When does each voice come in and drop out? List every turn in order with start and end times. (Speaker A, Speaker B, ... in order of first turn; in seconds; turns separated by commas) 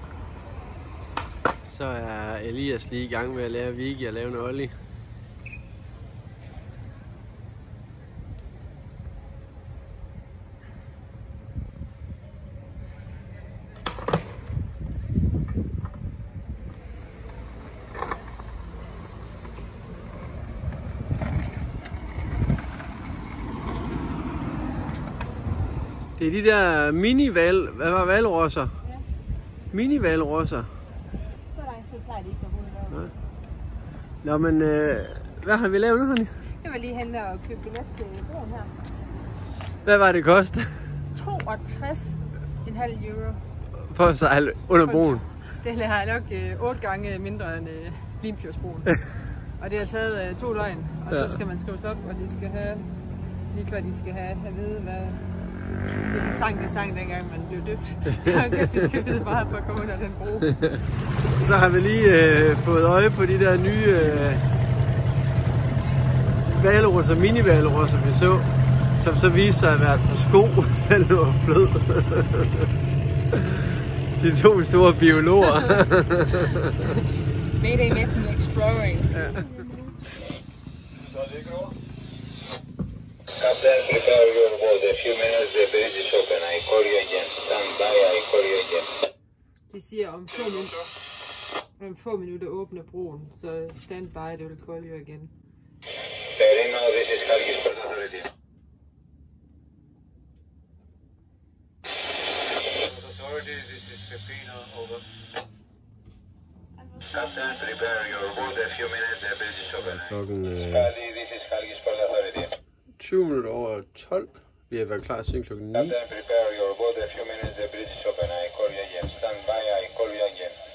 Speaker A: 1.6-4.7, Speaker A: 26.2-28.7, Speaker A: 29.7-30.7, Speaker B: 31.5-33.0, Speaker A: 34.2-36.3, Speaker B: 36.6-38.7, Speaker A: 39.8-40.8, Speaker B: 41.1-43.4, Speaker A: 43.9-45.2, Speaker B: 44.8-48.9, Speaker B: 49.6-52.9, Speaker A: 51.1-51.4, Speaker B: 53.5-55.2, Speaker B: 56.1-60.6, Speaker A: 61.3-64.4, Speaker A: 66.5-68.5, Speaker A: 69.0-72.7, Speaker A: 73.3-77.0, Speaker B: 77.6-79.2, Speaker A: 79.1-79.4, Speaker C: 81.2-81.7, Speaker C: 83.4-88.9, Speaker B: 89.7-90.8, Speaker B: 91.8-95.3, Speaker C: 96.4-98.3, Speaker C: 107.1-110.1, Speaker A: 109.8-110.9, Speaker C: 110.8-112.5, Speaker A: 113.0-116.0, Speaker C: 115.8-120.5